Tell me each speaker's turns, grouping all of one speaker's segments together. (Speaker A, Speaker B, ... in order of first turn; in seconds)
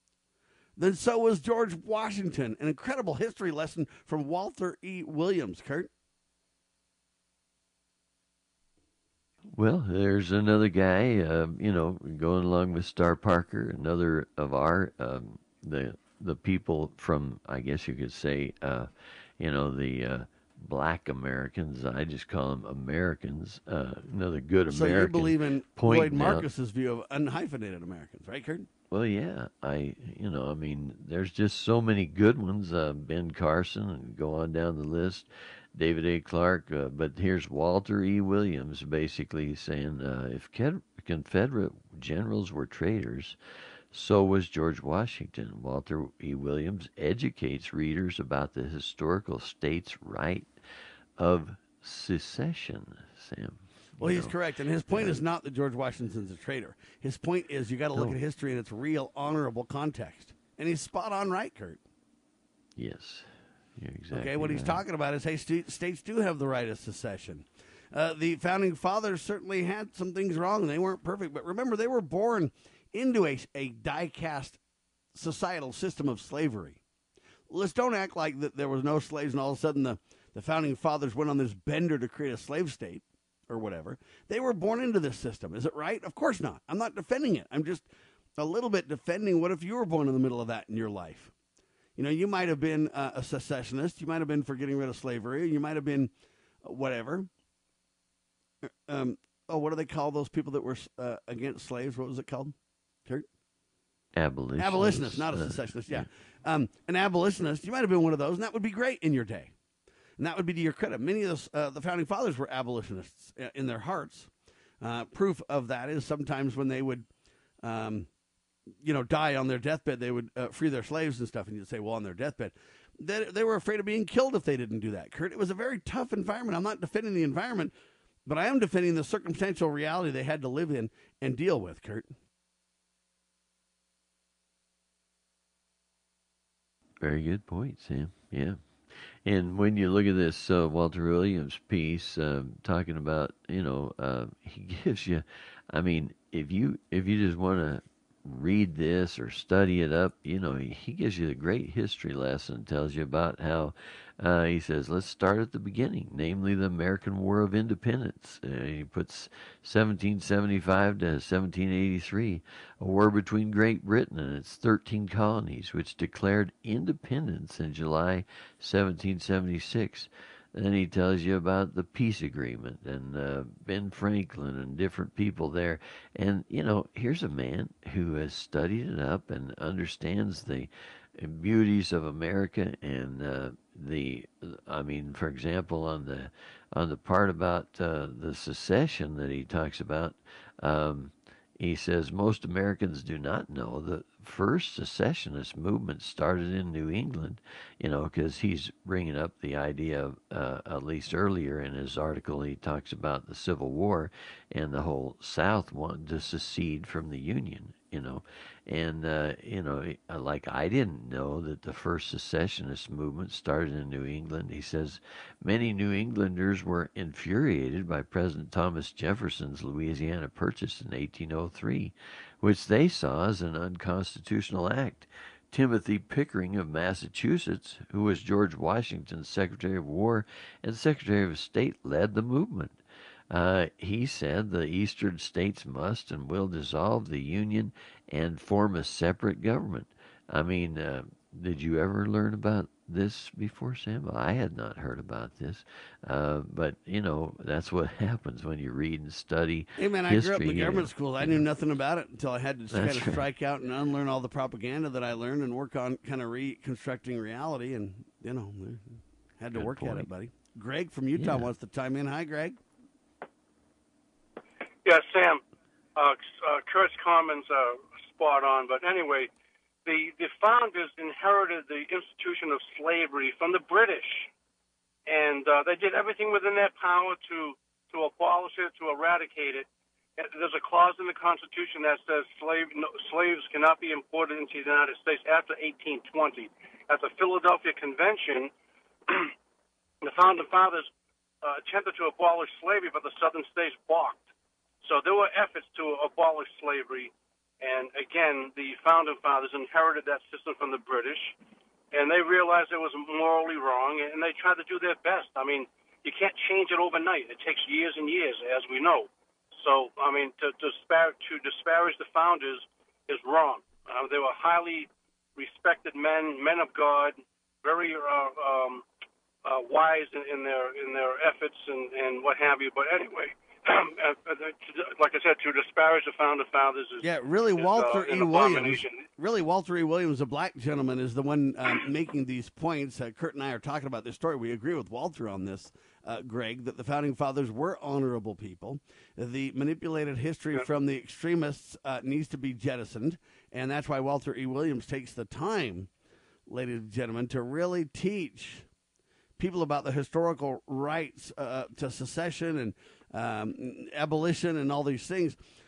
Speaker A: 0.8-5.9, 24.7-28.7, 54.0-61.8, 64.1-74.6, 75.1-76.8, 77.5-87.9, 88.4-91.3, 92.0-96.1, 96.6-97.3, 98.9-102.5, 104.6-109.5, 110.2-114.3, 114.8-117.1, 117.6-118.1, 118.8-127.7, 128.3-132.1, 249.8-258.8, 259.4-262.6, 327.0-345.9, 346.5-348.6, 349.4-355.4
Speaker B: 9.5-26.5, 28.9-43.4, 43.9-50.5, 51.2-54.3, 54.9-55.2, 62.8-64.8, 104.2-106.1, 137.0-138.6, 139.2-232.8, 233.3-251.4, 252.7-253.3, 259.5-260.1, 261.2-261.5
Speaker C: 264.8-265.4, 266.0-269.3, 269.9-274.3, 275.1-279.7, 280.2-288.5, 289.1-289.3, 290.0-290.9, 291.4-294.3, 294.8-301.4, 301.9-318.8, 319.4-329.0